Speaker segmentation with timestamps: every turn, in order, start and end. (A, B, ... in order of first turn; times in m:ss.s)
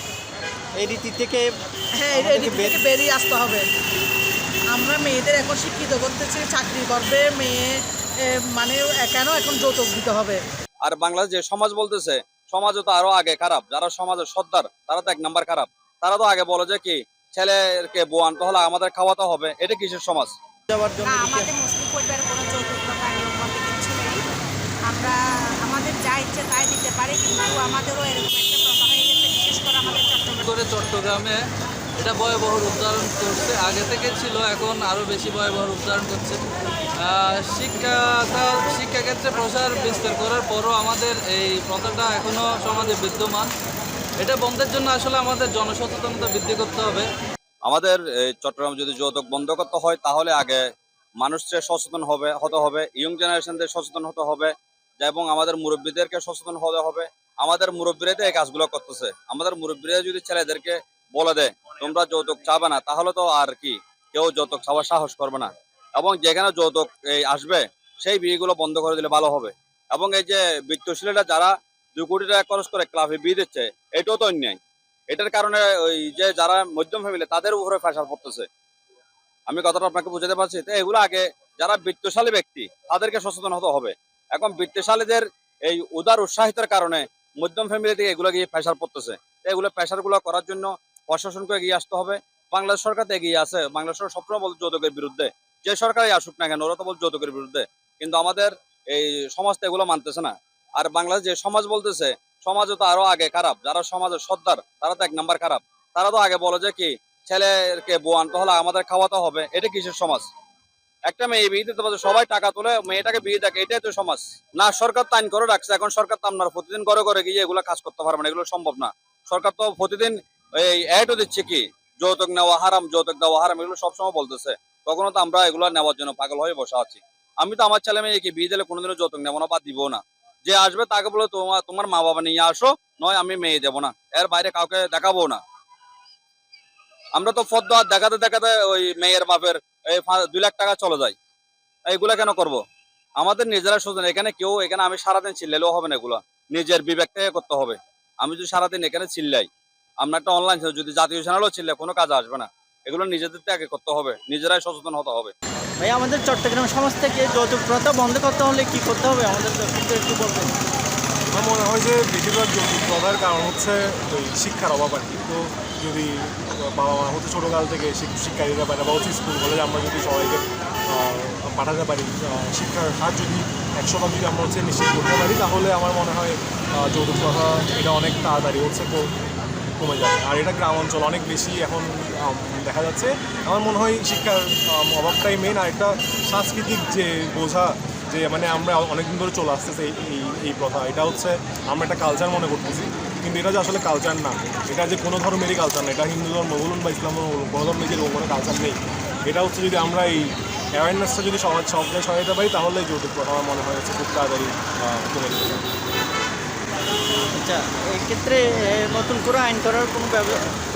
0:00.8-0:01.5 A
0:02.0-0:03.6 B
0:02.1-0:02.8 A
0:04.7-0:07.8 B
0:08.5-0:10.4 B
0:10.8-0:20.3 C
0:20.7-0:21.5 A
0:21.0-0:24.2 D
0:24.9-0:30.6 D
0:30.4-0:31.4 E
0:32.0-0:36.4 E
0:37.0-0:43.5 E
0:44.2-0:47.1 E
0:47.6-0:50.6 C
0:51.2-1:14.6 C
1:15.1-1:18.4 C
1:19.5-1:50.3 C
1:51.1-2:15.4 C
2:17.2-2:21.1 C
2:21.9-2:22.6 C
2:23.2-2:29.5 C
2:30.0-2:35.3 C
2:35.8-2:40.5 A
2:41.3-2:59.1 F
2:59.8-3:25.7 F
3:27.3-3:30.4 A